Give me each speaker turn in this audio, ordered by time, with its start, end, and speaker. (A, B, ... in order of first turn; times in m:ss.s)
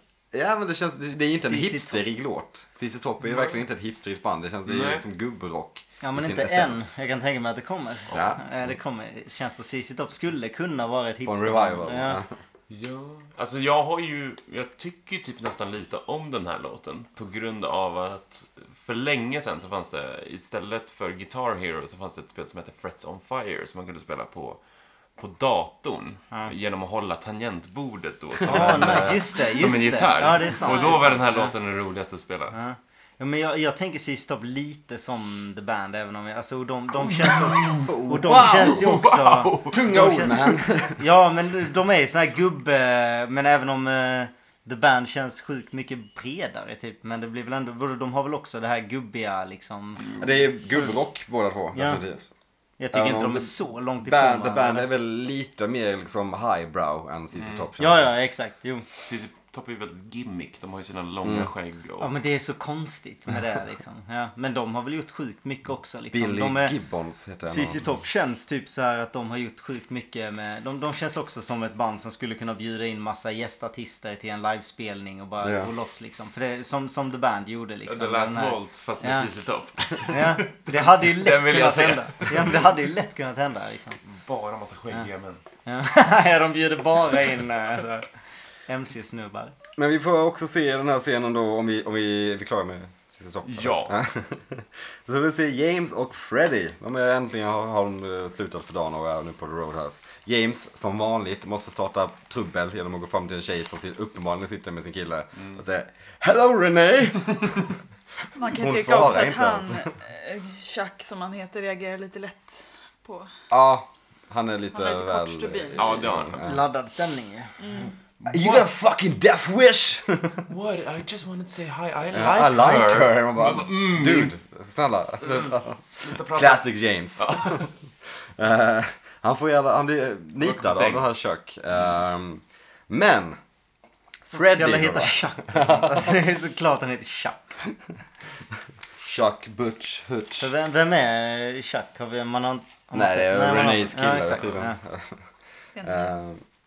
0:00.3-0:06.9 A
0:01.3-0:02.0 B
0:03.3-0:03.6 C
0:04.6-0:05.0 C
0:06.0-0:12.2 B
0:08.1-0:08.4 A
0:11.2-0:12.3 A
0:12.7-0:24.6 C
0:25.2-0:32.6 C
0:28.5-0:29.2 A
0:28.5-0:31.5 B
0:30.6-0:31.0 D
0:32.5-0:50.2 B
0:37.2-0:39.8 C
0:37.9-0:38.9 A
0:39.6-0:41.0 A
0:50.2-0:52.3 A
0:51.7-0:52.0 B
0:52.8-0:54.9 B
0:52.9-0:58.1 A
0:57.4-0:57.7 C
0:57.8-0:58.8 B
0:59.0-1:02.1 C
1:01.2-1:01.5 A
1:02.0-1:06.7 B
1:06.1-1:07.8 A
1:07.4-1:19.3 B
1:15.4-1:15.7 A
1:17.9-1:22.7 C
1:20.1-1:24.0 B
1:24.0-1:25.4 C
1:25.6-1:28.1 B
1:28.7-1:29.5 B
1:29.8-1:47.7 A
1:33.4-1:33.9 C
1:48.3-1:53.3 D
1:48.4-1:49.9 A
1:53.5-1:56.6 A
1:54.7-1:56.0 D
1:55.8-1:56.6 C
1:56.4-1:57.6 B
1:57.6-1:57.9 D
1:58.2-1:58.7 C
1:58.3-2:00.4 A
2:00.5-2:04.3 C
2:02.1-2:07.7 A
2:05.2-2:06.6 C
2:07.2-2:07.7 C
2:08.4-2:13.4 A
2:10.4-2:11.1 C
2:14.3-2:16.1 A
2:14.3-2:17.4 B
2:19.0-2:20.5 A
2:20.4-2:24.8 B
2:22.9-2:25.2 A
2:25.8-2:26.1 D
2:25.8-2:26.4 A